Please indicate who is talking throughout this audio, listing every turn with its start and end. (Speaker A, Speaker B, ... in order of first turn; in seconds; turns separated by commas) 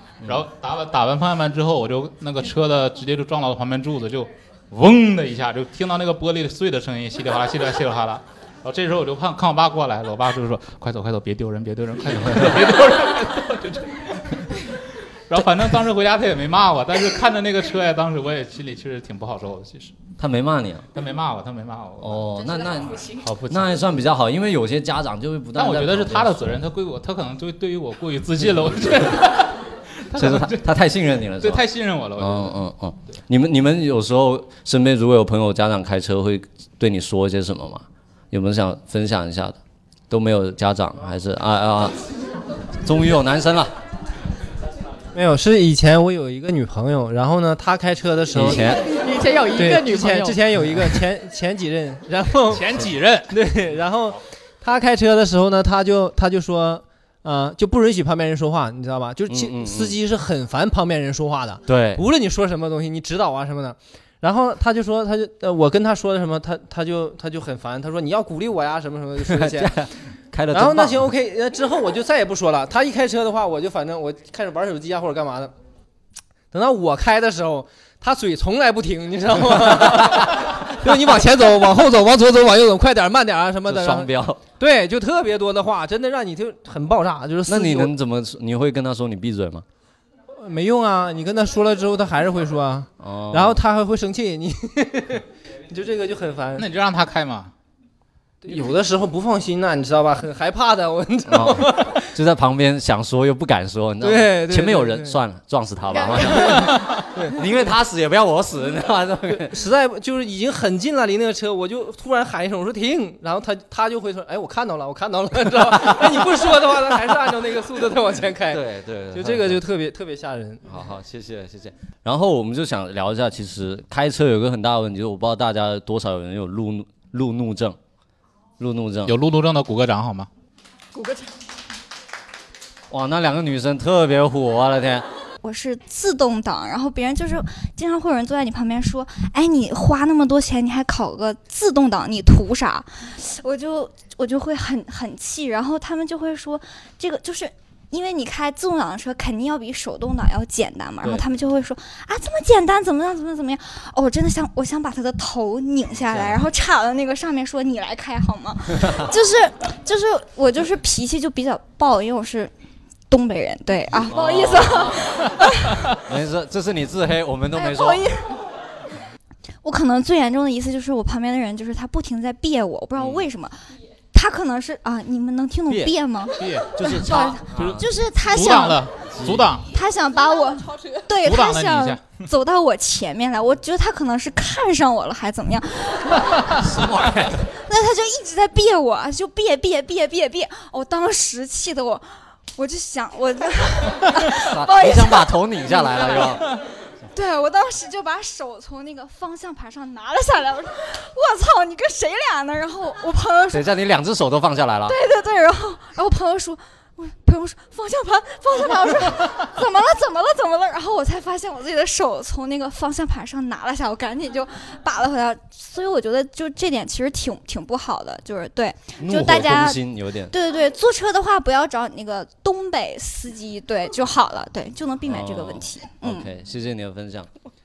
Speaker A: 0.2-19.9, Speaker B: 20.2-20.9, Speaker A: 20.9-23.8, Speaker B: 22.0-26.5, Speaker A: 25.6-30.7, Speaker B: 30.1-31.6, Speaker A: 31.4-32.6, Speaker B: 32.2-39.6, Speaker B: 40.1-42.0, Speaker B: 42.8-43.7, Speaker C: 45.1-48.9, Speaker B: 48.3-48.8, Speaker D: 48.8-50.4, Speaker C: 49.5-69.7, Speaker A: 52.5-53.4, Speaker B: 59.3-60.0, Speaker B: 61.7-62.0, Speaker B: 69.2-71.1, Speaker C: 70.5-75.5, Speaker C: 76.5-87.9, Speaker B: 79.9-80.2, Speaker B: 80.8-81.1, Speaker B: 83.7-84.4, Speaker B: 87.5-89.7, Speaker C: 90.4-96.7, Speaker B: 93.0-93.6, Speaker A: 96.6-97.5, Speaker C: 98.4-102.1, Speaker B: 101.3-106.8, Speaker C: 104.0-105.2, Speaker D: 105.9-106.2, Speaker C: 106.3-107.4, Speaker A: 106.6-106.9, Speaker B: 107.3-109.5, Speaker C: 109.3-120.6, Speaker B: 115.8-116.3, Speaker B: 118.5-119.7, Speaker B: 120.6-127.8, Speaker B: 128.6-129.1, Speaker A: 129.1-130.3, Speaker D: 130.9-131.3, Speaker B: 132.9-135.1, Speaker E: 135.4-162.5, Speaker B: 155.9-156.4, Speaker B: 158.8-159.1, Speaker E: 163.1-165.8, Speaker B: 164.0-165.3, Speaker B: 165.9-168.0, Speaker E: 167.5-168.4, Speaker E: 169.6-173.6, Speaker B: 173.0-173.2, Speaker E: 174.1-178.9, Speaker B: 175.7-175.9, Speaker A: 176.4-176.7, Speaker B: 176.7-177.9, Speaker A: 177.5-179.7, Speaker B: 179.1-179.6, Speaker E: 179.7-186.5, Speaker A: 181.2-182.2, Speaker B: 186.5-187.5, Speaker E: 187.7-196.4, Speaker B: 194.3-196.5, Speaker E: 197.1-203.8, Speaker B: 203.5-205.0, Speaker E: 204.9-219.8, Speaker B: 219.0-220.3, Speaker E: 220.3-226.3, Speaker B: 225.1-227.3